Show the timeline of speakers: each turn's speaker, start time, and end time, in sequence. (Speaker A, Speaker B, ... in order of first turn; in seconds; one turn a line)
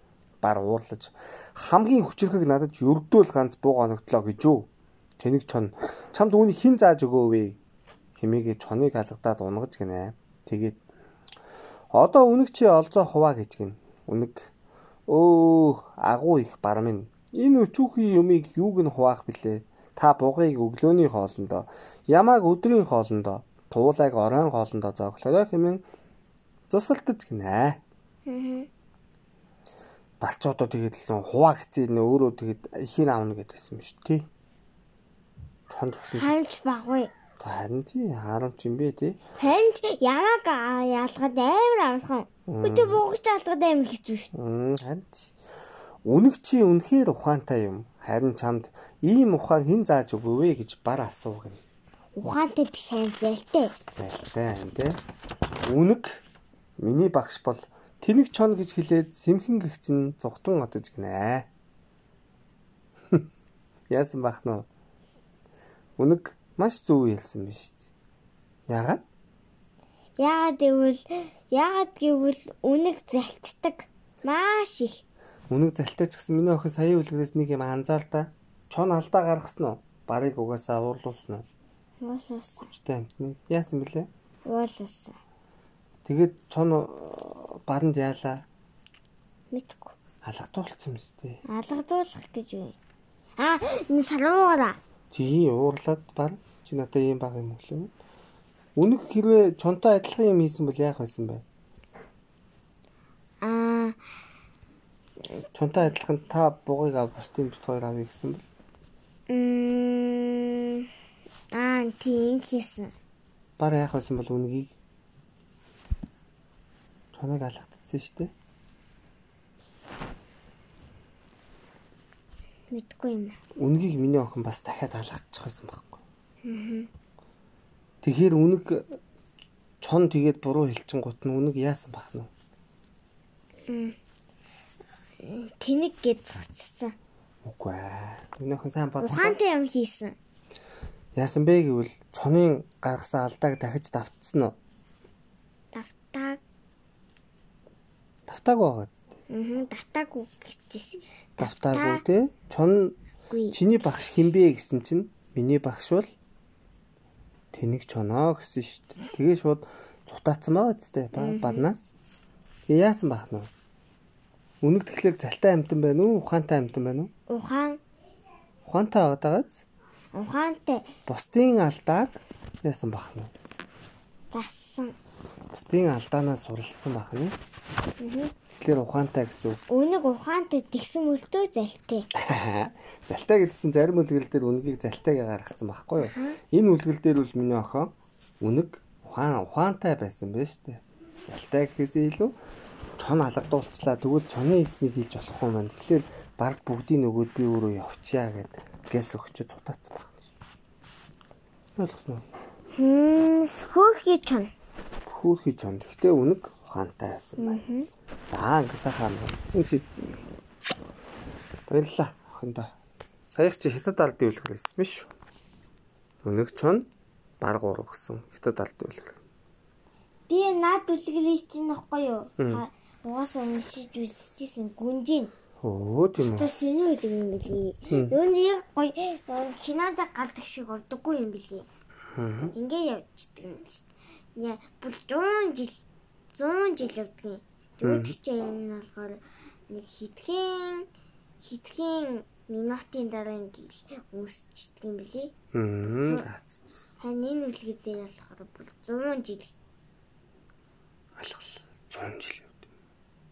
Speaker A: 0.4-7.6
Speaker A: 8.2-10.8
Speaker A: 11.9-14.5
Speaker A: 15.1-25.8
Speaker A: 26.7-27.8
Speaker B: 28.2-28.7
Speaker A: 30.2-34.3
Speaker A: 35.7-36.3
Speaker B: 36.1-37.1
Speaker A: 37.4-39.2
Speaker B: 39.4-44.3
Speaker A: 42.5-43.0
Speaker A: 44.3-45.3
Speaker A: 46.0-51.6
Speaker B: 52.1-53.7
Speaker A: 53.9-55.0
Speaker A: 55.6-56.2
Speaker A: 56.8-61.5
Speaker A: 63.9-64.7
Speaker A: 66.0-67.9
Speaker A: 68.7-69.0
Speaker B: 70.2-75.0
Speaker A: 75.5-81.5
Speaker B: 82.0-82.7
Speaker A: 82.6-84.1
Speaker B: 84.5-85.2
Speaker A: 86.0-88.4
Speaker B: 89.5-90.0
Speaker A: 90.2-91.4
Speaker B: 91.5-92.7
Speaker B: 93.4-94.8
Speaker A: 95.1-97.9
Speaker A: 98.8-101.4
Speaker B: 103.4-104.0
Speaker A: 105.5-108.4
Speaker B: 109.3-110.9
Speaker B: 111.5-112.9
Speaker A: 113.6-114.7
Speaker A: 117.1-118.3
Speaker B: 122.7-123.4
Speaker A: 123.6-126.0
Speaker B: 126.4-126.9
Speaker A: 128.0-129.0
Speaker A: 129.8-132.3
Speaker B: 133.7-133.9
Speaker B: 135.2-136.9
Speaker A: 137.4-139.4
Speaker B: 139.0-140.2
Speaker A: 141.2-144.6
Speaker B: 145.7-146.4
Speaker A: 148.3-149.0
Speaker B: 149.3-152.0
Speaker A: 151.4-152.9
Speaker B: 153.3-153.6
Speaker A: 153.5-156.1
Speaker A: 157.5-161.9
Speaker B: 161.1-161.6
Speaker A: 162.7-163.5
Speaker A: 164.6-167.1
Speaker B: 167.3-167.8
Speaker A: 168.7-169.6
Speaker B: 170.1-170.9
Speaker A: 171.1-173.3
Speaker B: 174.3-174.9
Speaker A: 175.5-177.4
Speaker B: 178.0-178.3
Speaker A: 178.5-179.6
Speaker B: 179.7-182.1
Speaker A: 182.1-192.3
Speaker B: 186.0-186.4
Speaker A: 193.0-200.2
Speaker A: 201.8-202.3
Speaker B: 202.8-204.5
Speaker A: 205.1-207.6
Speaker B: 207.4-207.9
Speaker A: 208.3-209.9
Speaker A: 211.7-212.8
Speaker A: 213.3-215.1
Speaker A: 216.2-216.9
Speaker A: 217.4-219.2
Speaker B: 220.3-225.3
Speaker A: 222.4-222.6
Speaker A: 225.6-226.5
Speaker B: 226.2-231.7
Speaker A: 227.9-228.2
Speaker A: 232.1-232.5
Speaker B: 232.5-235.8
Speaker B: 236.3-240.9
Speaker A: 237.8-238.2
Speaker B: 241.4-245.3
Speaker A: 245.5-246.7
Speaker B: 245.9-246.2
Speaker B: 247.0-249.5
Speaker A: 251.2-252.6